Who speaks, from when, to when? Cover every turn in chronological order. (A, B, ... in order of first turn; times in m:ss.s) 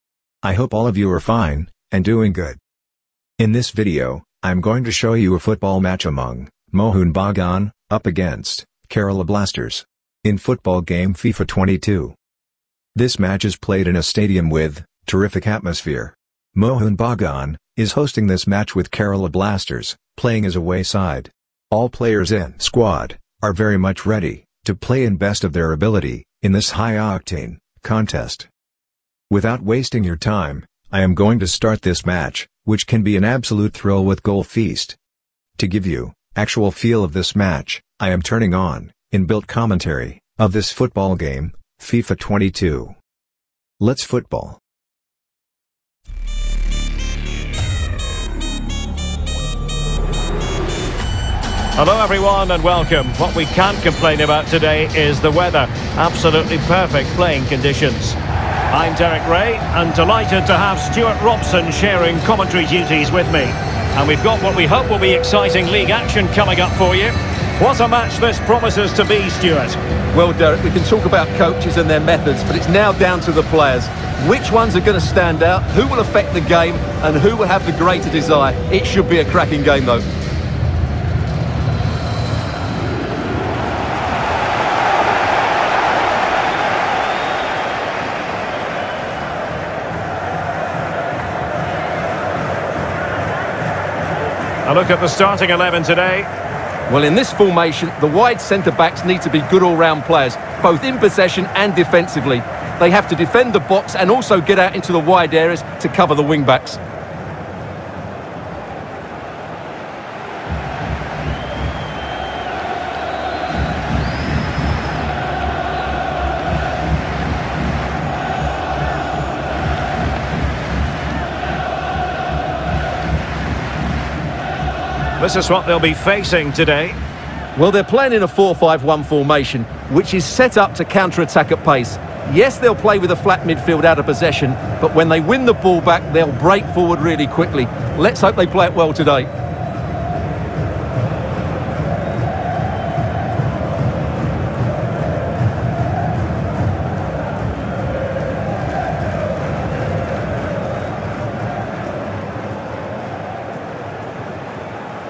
0:00.4-0:02.6 A
0:03.4-0:12.2 A
0:13.0-0:28.5 A
0:29.3-0:35.0 A
0:35.6-0:43.0 A
0:43.8-0:44.6 A
0:51.8-0:58.2 B
0:58.7-1:09.8 B
1:10.1-1:20.0 C
1:34.7-1:36.3 B
1:36.9-1:46.8 C
2:05.2-2:07.0 B
2:07.6-2:19.3 C